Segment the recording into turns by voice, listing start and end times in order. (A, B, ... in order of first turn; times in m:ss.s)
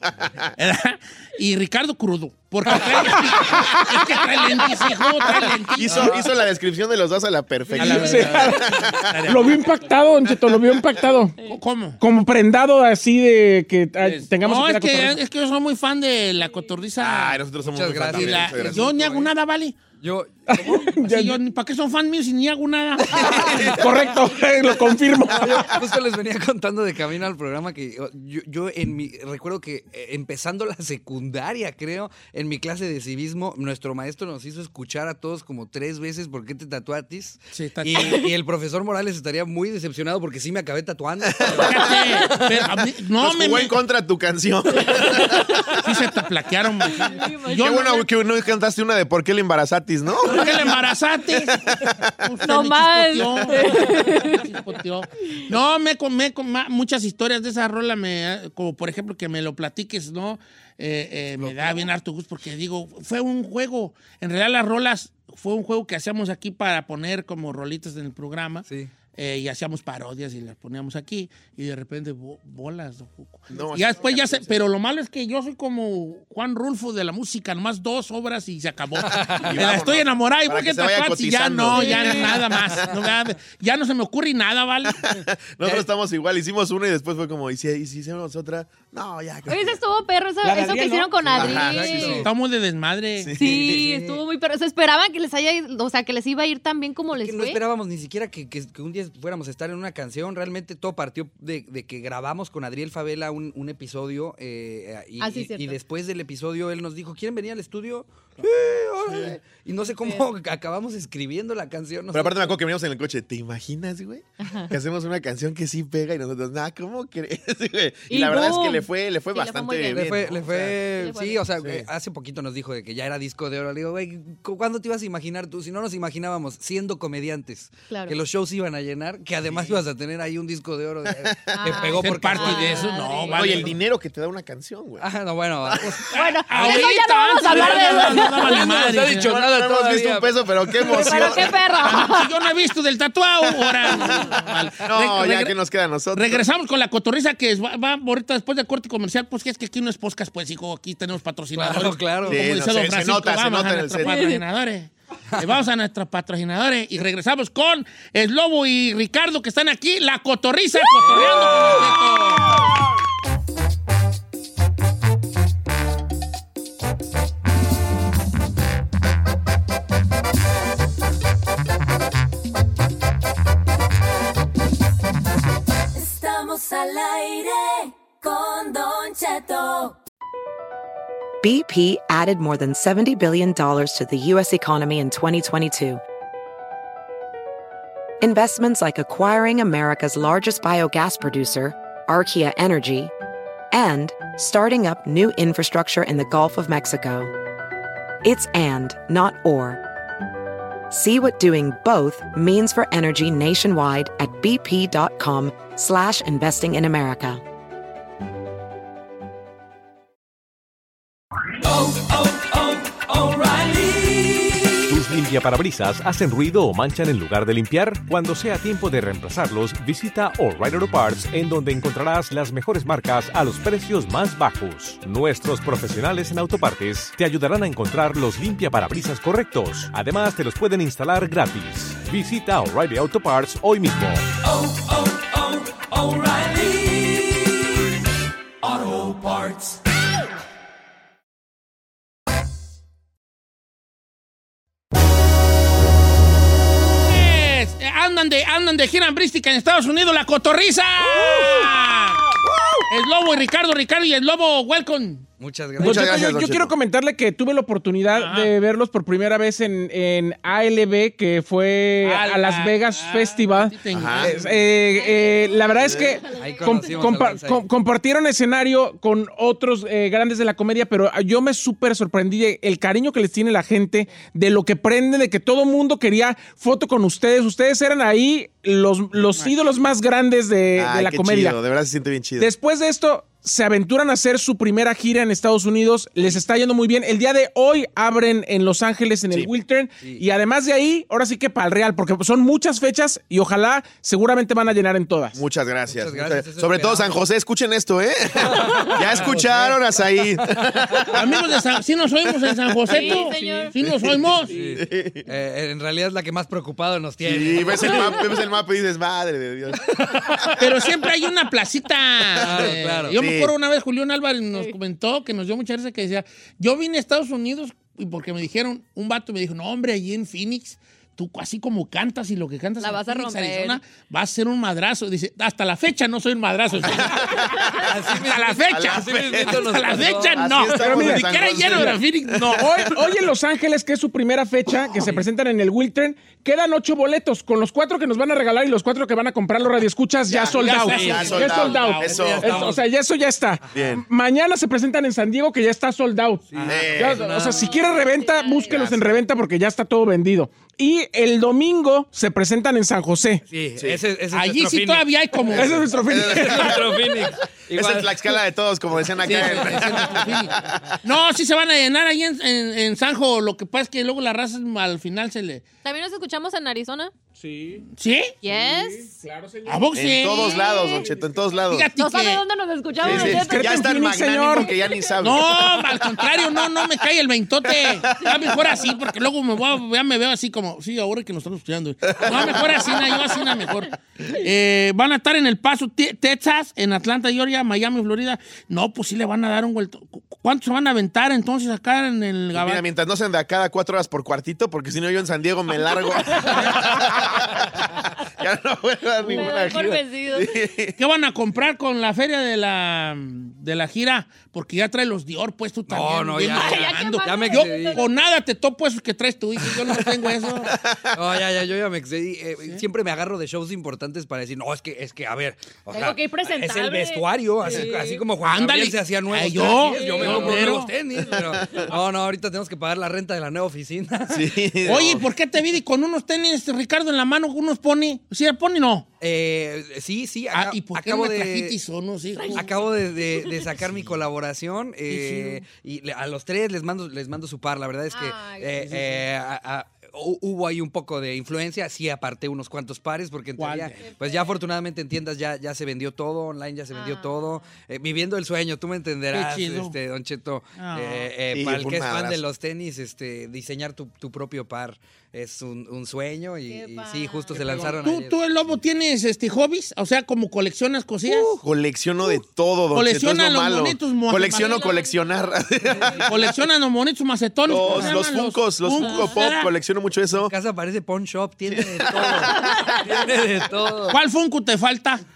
0:00.6-0:06.3 A
0:05.7-0:09.5 B
0:07.7-0:09.6 A
0:07.8-0:11.4 C
0:11.4-0:12.0 A
0:12.0-0:15.2 C
0:14.0-0:17.4 A
0:17.0-0:18.9 B
0:17.6-0:19.3 D
0:18.1-0:19.8 A
0:20.0-0:20.9 D
0:20.5-0:21.4 C
0:20.9-0:23.7 A
0:23.1-0:23.7 D
0:23.2-0:23.8 B
0:23.7-0:25.7 C
0:25.2-0:42.0 D
0:37.5-0:38.2 A
0:41.5-0:43.8 A
0:42.0-0:42.4 E
0:43.2-0:45.5 B
0:44.9-0:45.7 E
0:45.7-0:48.0 A
0:46.8-0:48.1 E
0:47.6-0:50.6 B
0:50.2-0:50.7 E
0:50.2-1:25.0 A
0:51.8-0:52.1 B
0:52.4-0:54.5 E
1:01.4-1:01.9 D
1:08.6-1:08.9 D
1:13.5-1:14.6 B
1:19.0-1:19.6 D
1:19.5-1:22.9 B
1:21.7-1:22.4 E
1:24.9-1:29.8 B
1:29.5-1:32.3 E
1:30.4-1:31.4 C
1:31.3-1:32.2 B
1:31.4-1:32.3 D
1:32.0-1:33.3 A
1:33.2-1:33.8 B
1:33.4-1:37.6 E
1:33.4-1:34.2 D
1:37.1-1:52.5 D
1:45.2-1:45.8 E
1:49.0-1:49.4 A
1:50.0-1:50.2 E
1:52.1-2:00.6 B
1:54.4-1:54.7 E
1:58.1-2:00.1 E
1:59.9-2:13.0 D
2:00.8-2:01.4 E
2:11.1-2:11.5 B
2:11.5-2:13.6 E
2:11.8-2:13.8 A
2:13.3-2:15.1 B
2:15.0-2:16.8 D
2:16.1-2:19.4 A
2:16.1-2:18.7 E
2:17.6-2:20.4 D
2:19.0-2:21.6 B
2:20.8-2:22.3 E
2:21.0-2:21.2 D
2:21.7-2:25.5 A
2:24.8-2:26.4 B
2:26.1-2:42.7 A
2:31.5-2:32.4 D
2:32.3-2:34.2 B
2:34.0-2:34.4 E
2:41.0-2:42.0 D
2:55.9-3:00.0 F
3:01.4-3:06.0 G
3:08.2-3:13.1 G
3:13.7-3:17.3 G
3:18.2-3:19.8 G
3:20.9-3:27.4 G
3:31.6-3:34.7 F
3:34.9-3:54.2 H
3:54.4-3:57.7 F
3:58.6-3:59.8 F
4:07.0-4:12.3 A
4:12.4-4:12.8 B
4:12.9-4:15.2 A
4:15.4-4:16.2 D
4:15.8-4:41.6 C
4:15.8-4:16.7 B
4:18.1-4:18.5 A
4:22.0-4:24.6 A
4:23.9-4:24.4 B
4:25.0-4:25.8 E
4:25.8-4:26.2 B
4:26.3-4:27.6 D
4:26.3-4:27.0 E
4:39.3-4:39.6 A
4:40.8-4:42.5 B
4:42.4-4:55.4 C
4:55.3-5:01.4 B
4:55.9-4:57.2 D
4:58.4-4:59.8 D
5:01.1-5:04.5 A
5:02.9-5:03.7 E
5:02.9-5:03.2 B
5:03.8-5:05.2 B
5:04.5-5:08.2 D
5:07.2-5:10.5 B
5:10.6-5:32.9 A
5:12.4-5:13.2 D
5:12.6-5:13.5 B
5:22.8-5:23.8 E
5:26.8-5:27.7 B
5:27.8-5:30.5 D
5:28.7-5:32.9 B
5:30.8-5:31.8 C
5:32.5-5:53.4 C
5:40.3-5:42.6 B
5:40.3-5:42.8 A
5:42.4-5:42.8 D
5:43.6-5:43.9 D
5:43.7-5:44.0 B
5:46.5-5:47.7 D
5:46.6-5:47.3 B
5:47.6-5:48.7 E
5:48.7-5:49.1 B
5:53.5-5:58.3 D
5:54.3-5:55.9 A
5:55.5-5:56.8 C
5:56.0-5:57.0 B
5:57.7-6:00.7 B
5:59.2-6:05.6 A
6:05.8-6:07.1 E
6:07.4-6:07.8 C
6:07.9-6:08.4 A
6:08.4-6:09.1 E
6:08.5-6:10.2 C
6:09.6-6:10.6 A
6:09.9-6:11.9 B
6:10.3-6:11.0 E
6:10.9-6:11.5 C
6:11.7-6:12.4 A
6:12.0-6:13.9 E
6:13.0-6:16.1 B
6:13.1-6:14.7 C
6:14.6-6:15.1 E
6:15.2-6:32.8 A
6:17.8-6:18.4 B
6:22.2-6:22.9 B
6:32.5-6:41.0 B
6:39.2-6:40.7 E
6:41.0-6:50.7 A
6:45.9-6:48.0 D
6:46.4-6:48.1 E
6:50.6-6:51.2 B
6:51.1-7:05.0 D
6:55.9-6:58.2 E
6:58.4-7:00.9 A
6:59.7-7:00.6 E
7:04.3-7:05.2 B
7:04.8-7:09.1 A
7:09.2-7:11.8 D
7:10.5-7:12.6 A
7:12.4-7:13.6 E
7:12.5-7:38.7 D
7:15.1-7:15.6 A
7:18.1-7:18.8 E
7:18.8-7:19.2 A
7:23.6-7:24.1 A
7:26.9-7:27.6 E
7:29.3-7:30.0 A
7:30.8-7:31.3 A
7:31.5-7:32.4 B
7:36.7-7:38.1 E
7:37.5-7:41.5 A
7:41.3-7:46.4 B
7:42.9-7:45.0 A
7:44.5-7:46.3 E
7:46.2-7:49.7 A
7:47.7-7:50.5 B
7:49.0-7:49.3 E
7:50.4-7:54.2 D
7:51.7-7:53.1 B
7:52.6-7:53.0 E
7:54.1-7:55.2 A